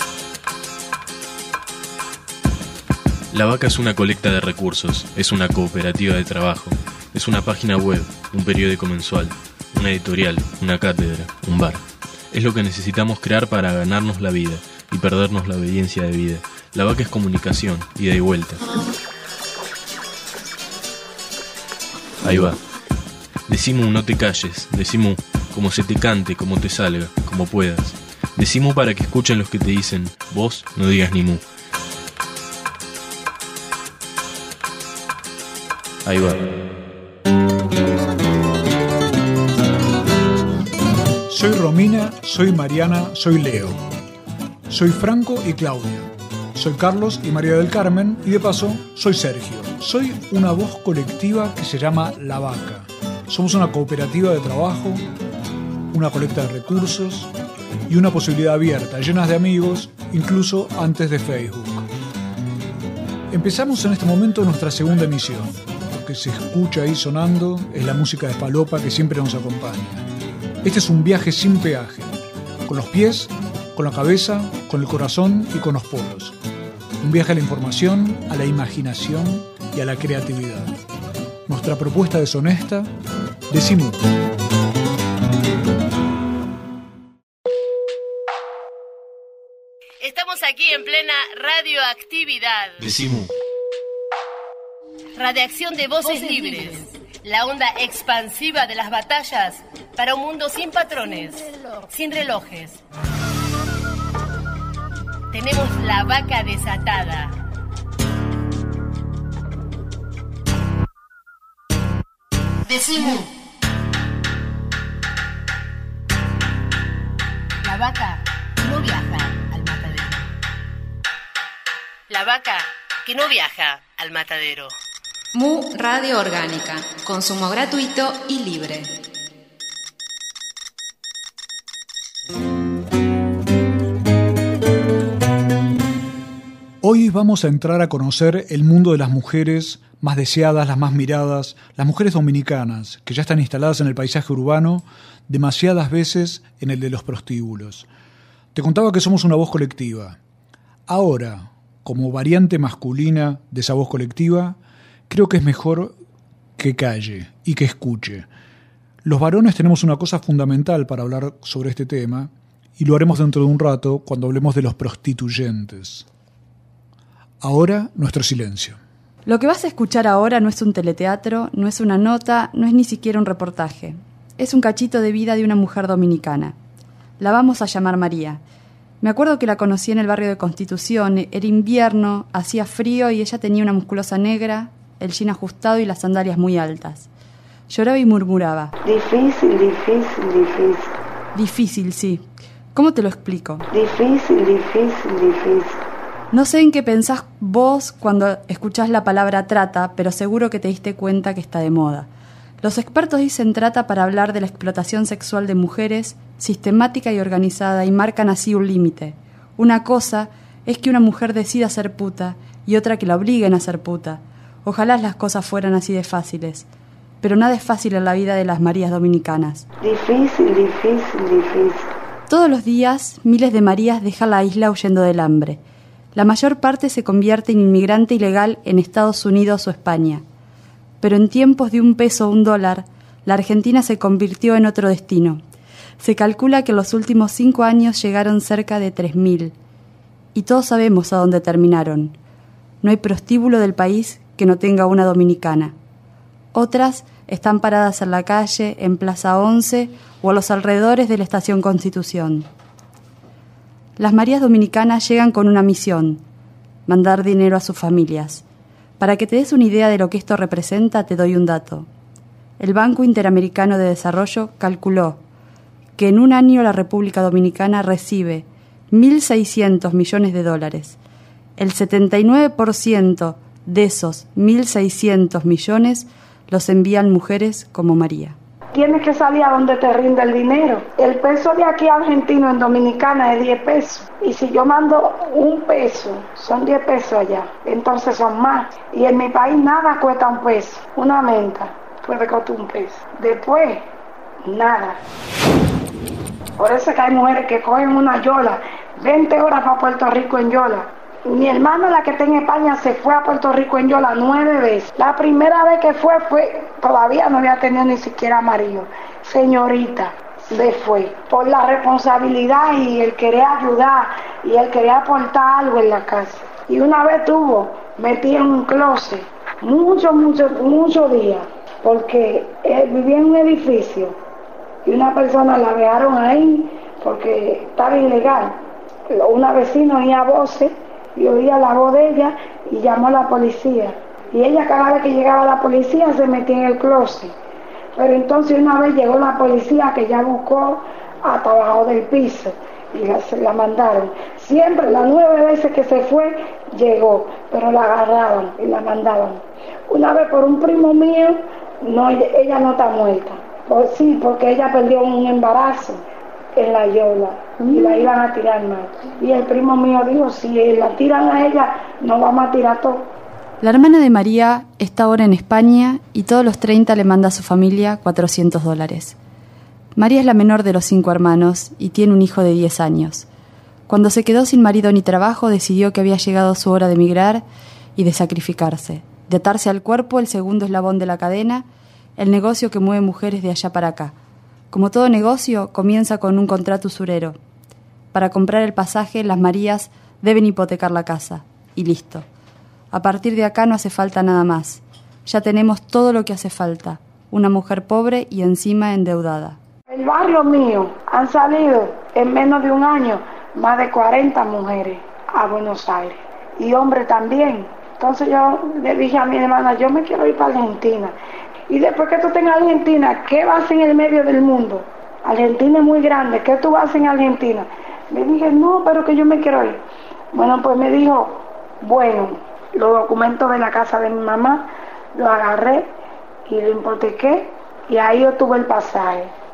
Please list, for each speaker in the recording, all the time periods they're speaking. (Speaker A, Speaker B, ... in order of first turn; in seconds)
Speaker A: 3.3-18.6, 22.2-22.6, 23.5-31.4, 36.0-36.5, 92.8-93.3
Speaker B: 41.3-43.8, 44.7-55.0, 55.9-57.3, 57.9-61.9, 63.3-70.0, 70.6-76.4, 77.0-80.8, 81.5-82.9, 83.5-84.0, 136.8-147.8, 148.5-150.2, 150.9-154.6, 155.1-155.9, 156.6-158.3, 159.0-166.1, 167.4-168.8
Speaker C: 90.0-92.8, 95.2-102.8, 105.3-107.3, 112.7-113.3, 117.6-120.3, 122.1-124.7
Speaker D: 125.3-128.9
Speaker E: 169.2-176.6, 177.2-178.4, 179.0-187.1, 187.7-188.7, 191.3-193.7, 196.3-202.1, 202.6-216.7, 217.2-219.7, 222.3-225.6, 226.2-230.2, 231.0-235.4, 236.0-239.6, 240.3-242.2, 242.8-245.8, 246.5-252.5, 254.0-256.2, 256.9-258.4, 259.0-261.9, 262.6-265.2, 266.0-271.0, 271.6-278.4, 363.6-369.1, 369.9-373.2, 373.9-377.4, 377.9-381.6, 382.2-384.1, 384.7-387.4, 388.1-392.2, 392.9-399.6
Speaker F: 188.8-190.9, 193.7-195.8, 219.8-221.9, 278.7-293.8, 294.4-295.0, 296.6-324.1, 324.8-328.6, 329.1-337.3, 337.9-356.0, 356.5-363.1, 399.9-411.1, 411.7-419.8, 420.3-425.9, 426.4-429.3